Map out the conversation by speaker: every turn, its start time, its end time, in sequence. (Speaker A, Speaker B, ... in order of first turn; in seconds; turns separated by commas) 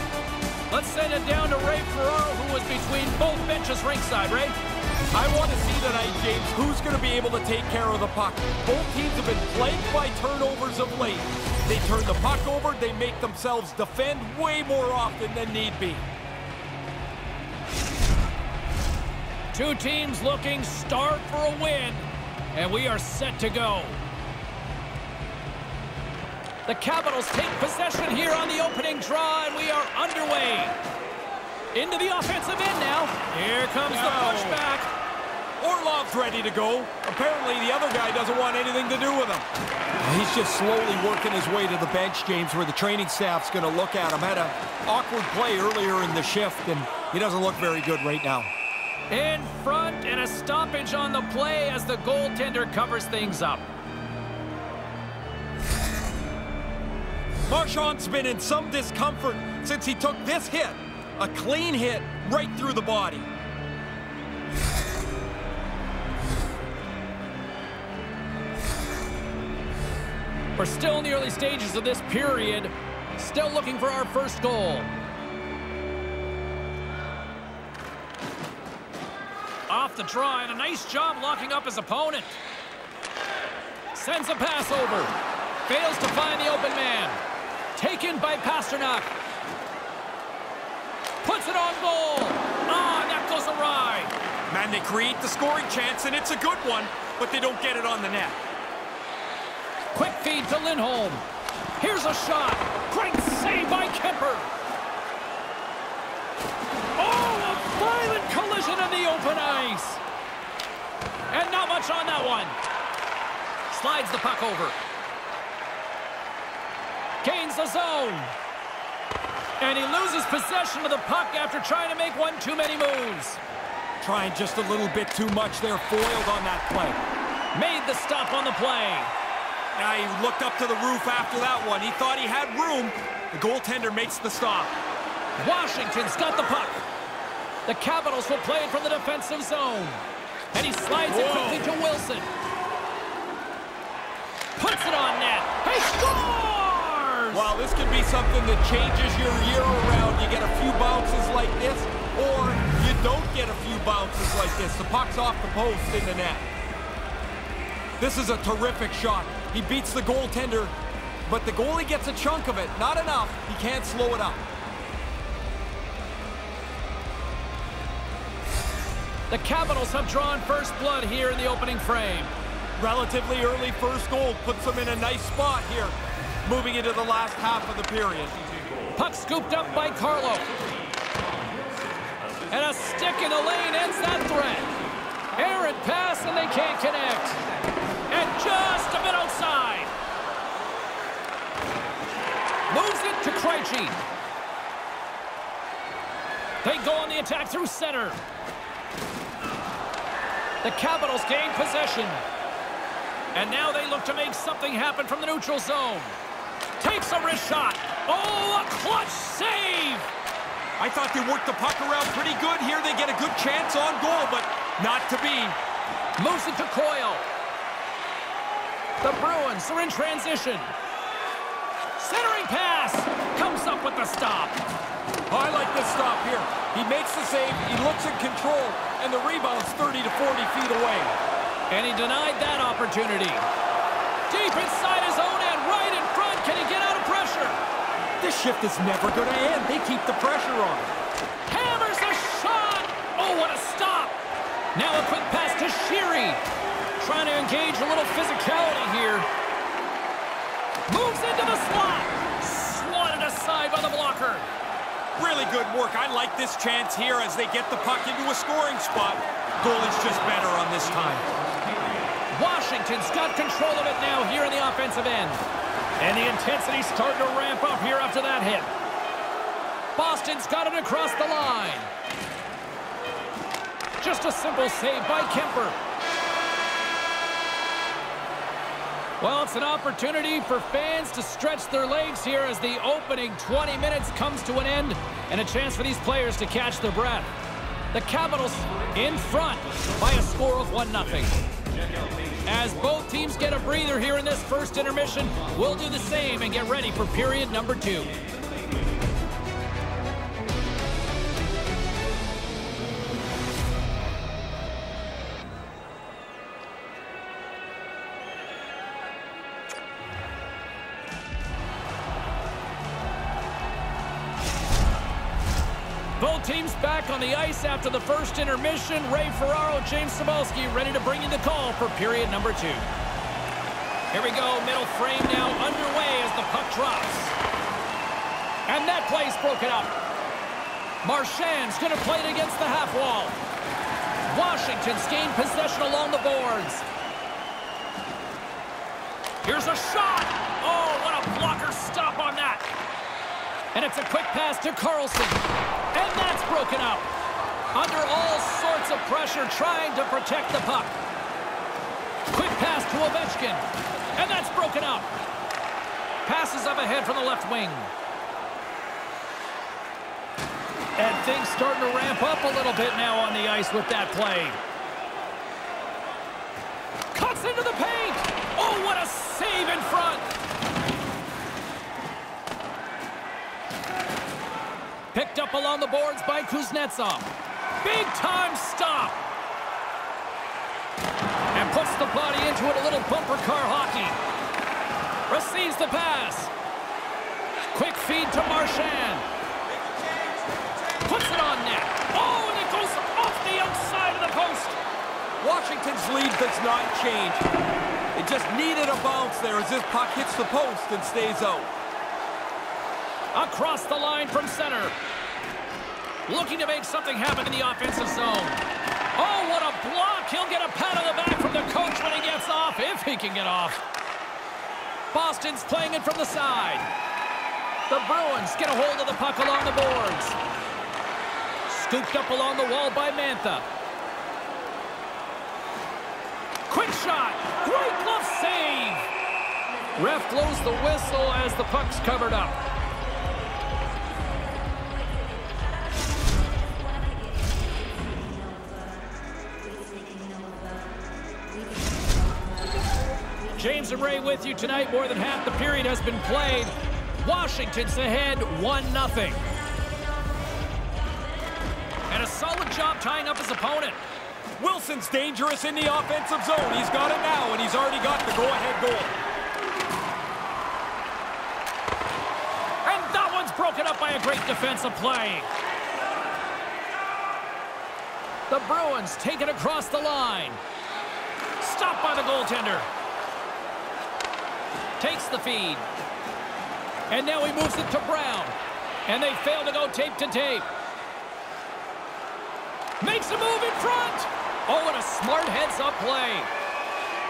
Speaker A: 0.7-4.5, Speaker B: 5.1-16.0, Speaker A: 19.5-24.0, Speaker A: 26.6-30.8, Speaker A: 31.7-34.9, Speaker B: 33.8-34.6, Speaker B: 35.6-39.5, Speaker B: 40.0-48.5, Speaker A: 49.1-53.6, Speaker B: 57.5-63.3, Speaker A: 70.5-74.9, Speaker A: 79.7-82.4, Speaker A: 83.9-85.1, Speaker A: 85.7-87.2, Speaker A: 87.8-89.1, Speaker A: 91.2-94.1, Speaker B: 94.5-98.4, Speaker A: 99.9-101.2, Speaker A: 101.8-104.5, Speaker A: 107.0-110.0, Speaker A: 111.3-112.6, Speaker A: 113.7-114.8, Speaker A: 117.2-118.3, Speaker A: 119.6-123.4, Speaker B: 124.0-127.0, Speaker A: 127.5-129.1, Speaker B: 129.8-134.8, Speaker A: 135.4-136.8, Speaker A: 137.7-140.0, Speaker A: 140.5-142.3, Speaker B: 141.1-141.6, Speaker A: 144.6-147.5, Speaker B: 147.3-156.5, Speaker B: 158.0-160.7, Speaker B: 161.2-164.4, Speaker A: 169.3-172.3, Speaker B: 172.8-178.4, Speaker A: 178.9-180.5, Speaker A: 182.5-184.7, Speaker A: 185.3-187.4, Speaker A: 188.1-189.9, Speaker A: 192.7-194.0, Speaker A: 196.6-198.2, Speaker A: 200.6-202.2, Speaker A: 203.3-206.2, Speaker A: 206.8-210.1, Speaker B: 210.8-215.6, Speaker A: 216.2-217.2, Speaker A: 219.0-220.7, Speaker A: 222.0-224.6, Speaker B: 225.3-231.2, Speaker A: 231.7-233.5, Speaker A: 234.3-237.6, Speaker B: 238.2-240.9, Speaker A: 241.5-244.2, Speaker A: 244.7-246.4, Speaker A: 247.0-249.3, Speaker A: 250.9-254.5, Speaker B: 255.2-261.2, Speaker A: 262.3-265.4, Speaker A: 266.0-268.7, Speaker A: 269.9-271.9, Speaker A: 274.0-275.8, Speaker A: 279.2-287.3, Speaker A: 287.9-291.4, Speaker A: 292.4-298.1, Speaker A: 316.2-322.9, Speaker A: 324.1-327.3, Speaker A: 328.7-329.9, Speaker A: 331.0-333.4, Speaker A: 334.3-336.8, Speaker A: 339.4-342.6, Speaker A: 343.7-347.1, Speaker A: 347.7-350.9, Speaker A: 352.3-353.6, Speaker A: 354.1-355.1, Speaker A: 356.2-357.9, Speaker A: 361.0-364.6, Speaker A: 367.1-370.2, Speaker A: 375.1-377.3, Speaker A: 377.8-379.2, Speaker A: 381.5-384.2, Speaker A: 385.3-386.5, Speaker A: 387.7-389.2, Speaker A: 391.0-394.8, Speaker B: 395.4-397.4, Speaker B: 398.1-401.7, Speaker A: 403.3-404.9, Speaker A: 406.3-408.6, Speaker A: 409.1-413.8, Speaker A: 415.1-416.9, Speaker A: 417.9-420.4, Speaker A: 421.7-423.6, Speaker A: 426.7-429.1, Speaker A: 429.9-432.6, Speaker A: 443.6-449.4, Speaker A: 452.1-454.0, Speaker B: 454.6-459.2, Speaker A: 462.8-465.5, Speaker A: 468.5-470.6, Speaker A: 471.6-472.9, Speaker A: 475.0-475.9, Speaker A: 477.1-478.6, Speaker A: 479.1-480.7, Speaker A: 483.0-486.5